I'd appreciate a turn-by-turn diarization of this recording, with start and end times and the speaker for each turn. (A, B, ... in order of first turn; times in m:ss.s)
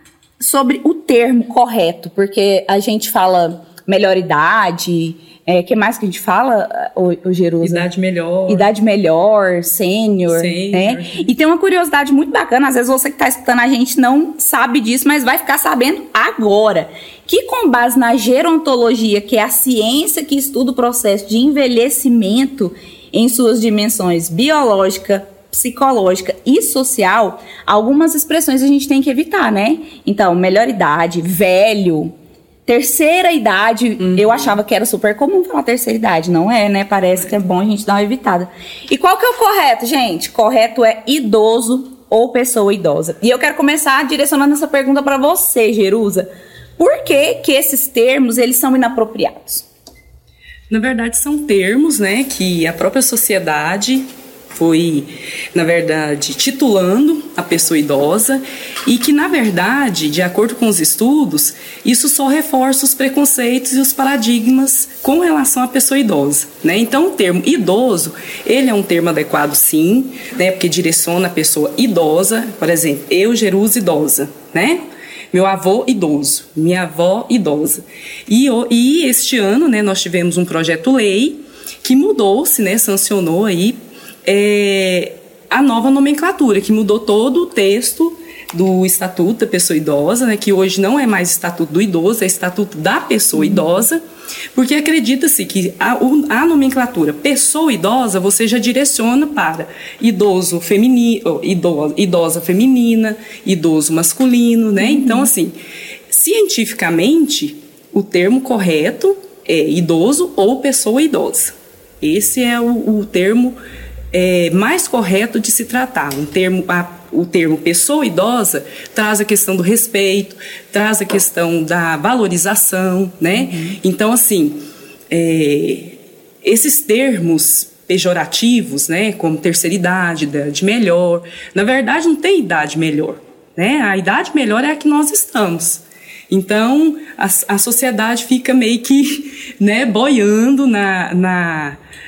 0:00.4-0:07.8 A
0:07.6-0:08.7 B
0:08.5-0:32.1 A
0:10.3-0:11.3 B
0:32.6-0:46.3 A
0:34.0-0:34.6 B
0:46.8-0:49.6 A
0:50.7-1:14.8 B
1:15.3-1:34.0 B
1:34.5-1:45.5 B
1:46.1-1:53.6 B
1:54.1-2:04.6 B
2:05.1-2:21.8 B